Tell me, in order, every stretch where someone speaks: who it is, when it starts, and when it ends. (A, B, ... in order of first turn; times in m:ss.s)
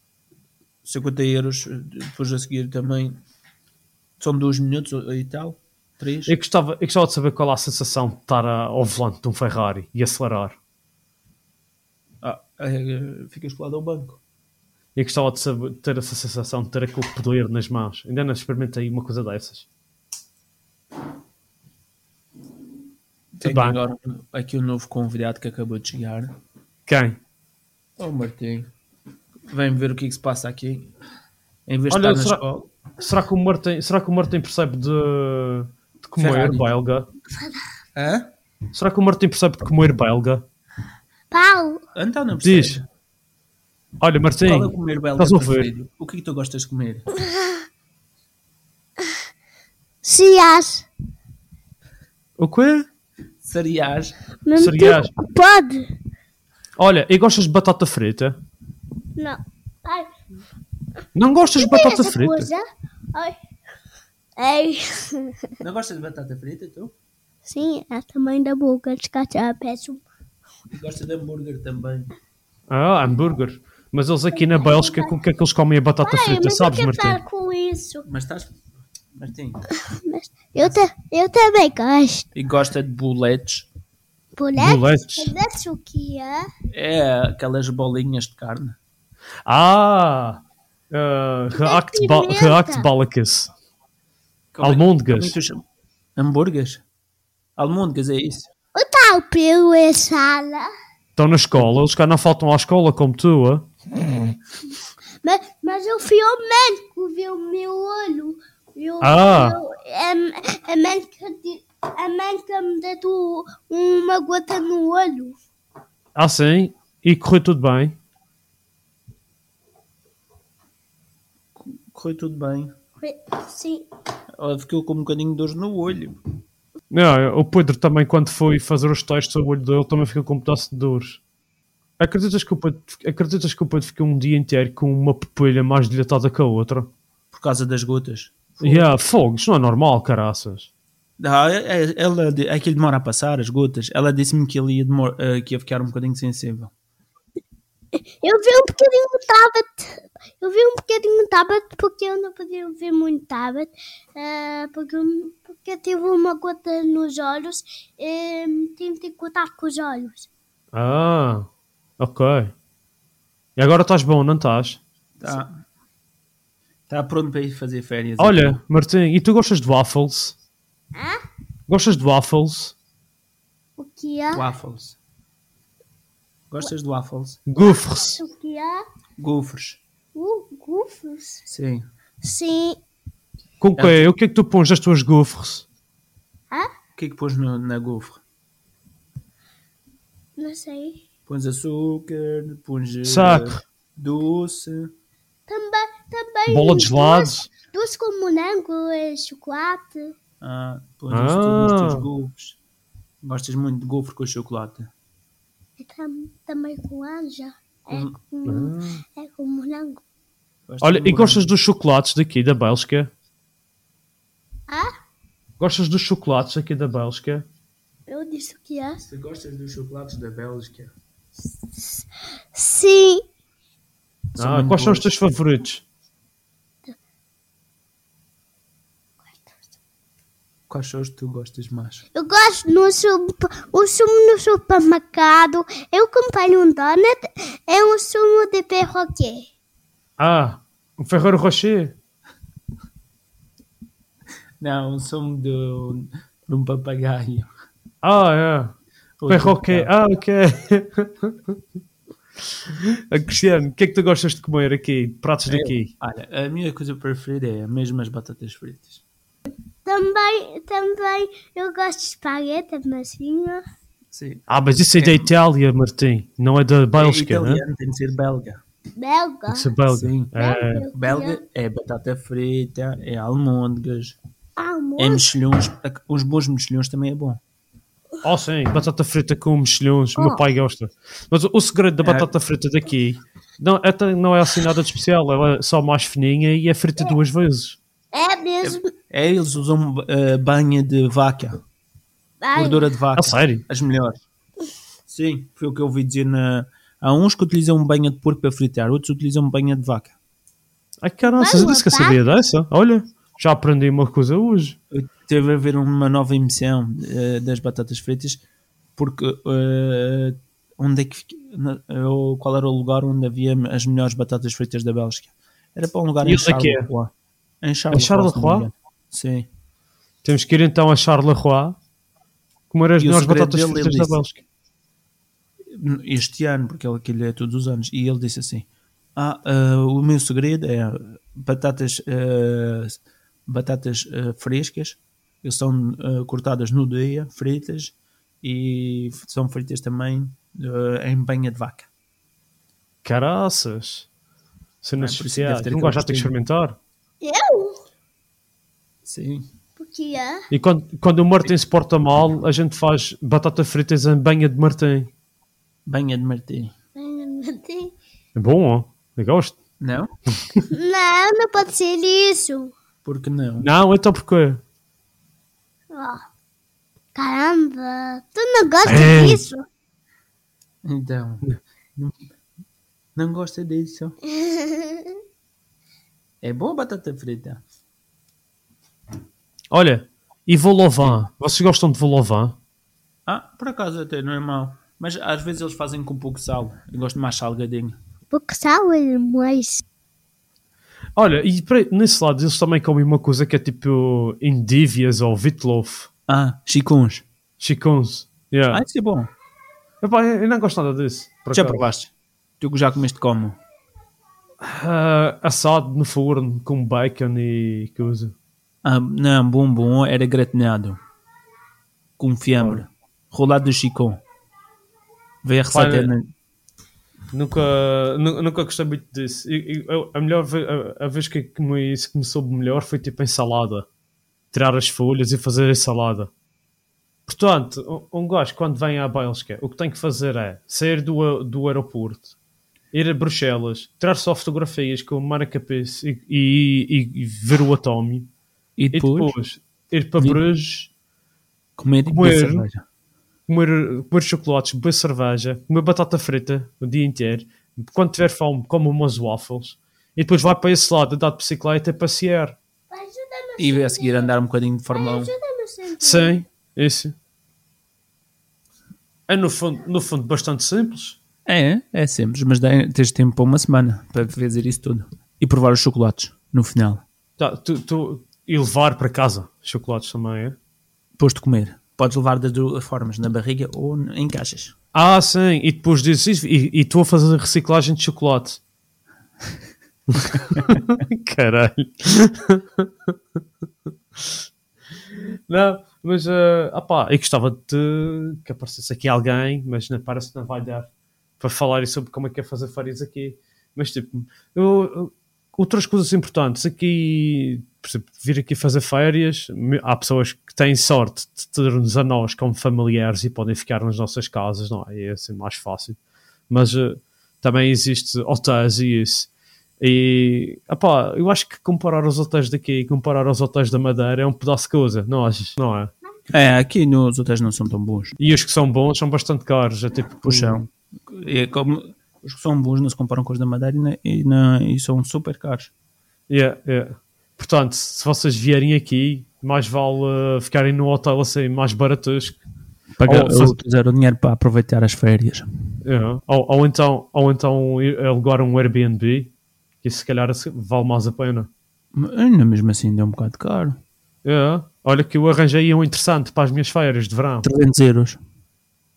0:00.8-0:03.2 A
0:04.2-0:06.3 A
0:06.3-0:10.6 B
0:12.2-0:14.2 A
0:15.0-0:19.7 B
0:23.3-0:26.3 A
0:23.4-0:23.8 B
0:26.9-0:27.2 B
0:28.0-0:28.7 A
0:29.5-0:30.9 A
0:31.7-0:32.7 A
0:31.9-0:32.4 B
0:33.0-0:37.1 B
0:36.2-0:36.7 A
0:37.9-0:38.3 A
0:38.7-0:40.4 B
0:41.3-0:41.8 C
0:41.9-0:42.8 A
0:42.4-0:42.8 B
0:44.0-0:45.7 B
0:44.4-0:47.1 A
0:47.3-0:47.6 C
0:50.0-0:50.9 C
0:52.4-0:52.9 B
0:53.4-0:54.2 A
0:54.4-0:55.9 C
0:54.6-0:55.1 B
0:56.8-0:58.4 B
0:59.2-1:00.1 C
1:01.1-1:02.5 B
1:01.6-1:03.4 C
1:04.4-1:05.5 C
1:05.6-1:06.9 A
1:07.4-1:10.0 C
1:10.7-1:12.1 A
1:12.7-1:17.2 B
1:14.3-1:15.1 C
1:16.0-1:18.0 C
1:18.0-1:18.6 A
1:19.1-1:19.6 A
1:19.8-1:22.3 C
1:22.3-1:23.7 A
1:24.4-1:26.5 C
1:24.6-1:25.3 B
1:26.7-1:28.8 A
1:29.4-1:33.5 B
1:31.5-1:32.9 C
1:34.5-1:35.6 A
1:34.6-1:35.4 B
1:36.2-1:36.8 A
1:37.6-1:38.5 A
1:38.7-1:40.7 C
1:41.2-1:43.7 B
1:45.2-1:55.3 C
1:49.0-1:49.6 B
1:56.1-1:58.0 B
2:01.6-2:02.7 A
2:03.0-2:03.8 C
2:04.4-2:06.2 A
2:06.9-2:11.2 B
2:12.0-2:16.9 B
2:17.3-2:18.9 A
2:18.6-2:20.7 B
2:21.2-2:26.7 A
2:27.9-2:40.3 C
2:40.7-2:41.5 B
2:42.0-2:42.5 B
2:43.6-2:44.8 B
2:45.2-2:45.6 A
2:46.9-2:48.6 A
2:48.2-2:50.4 B
2:50.9-2:51.2 C
2:51.7-2:52.7 B
2:53.8-2:54.4 C
2:54.3-2:55.0 A
2:56.5-2:57.4 A
2:57.5-2:58.2 B
2:57.6-2:58.8 C
2:59.2-2:59.8 A
3:00.1-3:01.4 C
3:01.5-3:01.9 A
3:02.2-3:02.8 C
3:03.6-3:05.6 B
3:03.8-3:04.1 A
3:07.0-3:08.2 A
3:10.4-3:11.0 C
3:11.3-3:14.9 A
3:13.0-3:13.6 B
3:15.5-3:20.1 C
3:16.5-3:17.5 B
3:20.4-3:22.6 A
3:21.1-3:22.1 B
3:23.2-3:24.9 A
3:25.8-3:30.0 C
3:28.4-3:29.0 B
3:30.7-3:31.5 A
3:30.8-3:33.1 B
3:34.7-3:34.9 C
3:35.6-3:37.4 B
3:38.1-3:39.0 C
3:39.0-3:40.9 A
3:41.7-3:43.2 C
3:44.3-3:45.1 A
3:44.4-3:45.8 B
3:49.2-3:49.6 C
3:50.7-3:52.0 A
3:52.1-3:59.4 C
4:00.2-4:01.9 B
4:04.6-4:07.5 A
4:08.0-4:08.7 B
4:09.2-4:09.9 A
4:09.3-4:11.6 B
4:12.4-4:15.9 B
4:15.5-4:19.0 A
4:19.8-4:23.6 C
4:24.1-4:25.3 A
4:24.5-4:27.6 B
4:27.0-4:28.6 A
4:29.0-4:29.7 C
4:29.5-4:30.9 B
4:29.9-4:30.3 A
4:30.3-4:31.4 C
4:30.9-4:34.2 A
4:34.6-4:35.3 C
4:35.0-4:37.4 A
4:38.2-4:47.8 B
4:42.0-4:42.3 A
4:48.1-4:48.9 C
4:48.7-4:51.6 A
4:52.4-4:52.9 C
4:52.5-4:54.2 A
4:53.2-4:53.6 B
4:55.1-5:00.1 A
5:01.0-5:04.8 B
5:01.2-5:02.2 C
5:04.9-5:08.4 A
5:09.0-5:19.5 A
5:16.2-5:16.9 B
5:17.9-5:18.7 B
5:20.2-5:21.8 B
5:22.7-5:24.4 B
5:23.0-5:24.2 A
5:25.7-5:41.9 A
5:43.0-5:44.1 B
5:44.8-5:46.8 B
5:45.0-5:46.3 A
5:47.2-5:47.8 C
5:49.0-5:49.5 A
5:49.8-5:50.4 C
5:50.5-5:55.1 B
5:55.9-5:56.7 A
5:57.0-5:57.9 C
5:58.3-5:59.6 B
5:59.8-6:00.1 A
6:00.7-6:02.7 C
6:03.0-6:03.7 A
6:03.6-6:04.6 B
6:05.9-6:06.2 C
6:07.1-6:09.6 C
6:08.8-6:09.4 B
6:10.8-6:12.2 A
6:13.2-6:14.2 A
6:14.3-6:15.2 C
6:16.4-6:17.6 A
6:19.7-6:22.6 B
6:23.2-6:28.0 A
6:28.3-6:29.8 C
6:31.2-6:36.1 B
6:36.3-6:37.2 A
6:37.6-6:38.8 B
6:38.7-6:39.3 A
6:40.0-6:41.8 B
6:41.5-6:43.6 A
6:44.6-6:48.3 B
6:48.8-6:51.0 A
6:52.2-6:54.2 A
6:55.4-6:56.3 A
6:55.7-6:56.1 B
6:57.3-7:03.8 B
7:04.5-7:06.3 B
7:07.2-7:12.3 B
7:12.9-7:18.3 B
7:18.8-7:19.3 A
7:18.9-7:20.9 B
7:21.8-7:22.8 A
7:22.1-7:22.6 B
7:23.5-7:32.6 B
7:32.9-7:34.3 C
7:33.6-7:35.3 A
7:34.9-7:36.4 C
7:36.0-7:37.1 B
7:39.3-7:41.2 B
7:41.4-7:47.0 A
7:47.4-7:50.6 B
7:51.2-7:54.7 A
7:54.9-7:58.6 B
8:00.1-8:03.2 B
8:00.5-8:00.8 A
8:04.1-8:04.4 B
8:05.1-8:10.9 B
8:11.4-8:29.3 B
8:29.8-8:35.9 B
8:36.3-8:38.2 A
8:38.2-8:40.6 B
8:40.2-8:45.7 A
8:46.3-8:52.4 B
8:53.0-8:55.5 A
8:53.0-8:53.6 B
8:55.8-9:01.5 B
9:01.9-9:03.8 A
9:04.2-9:07.5 B
9:07.4-9:08.2 A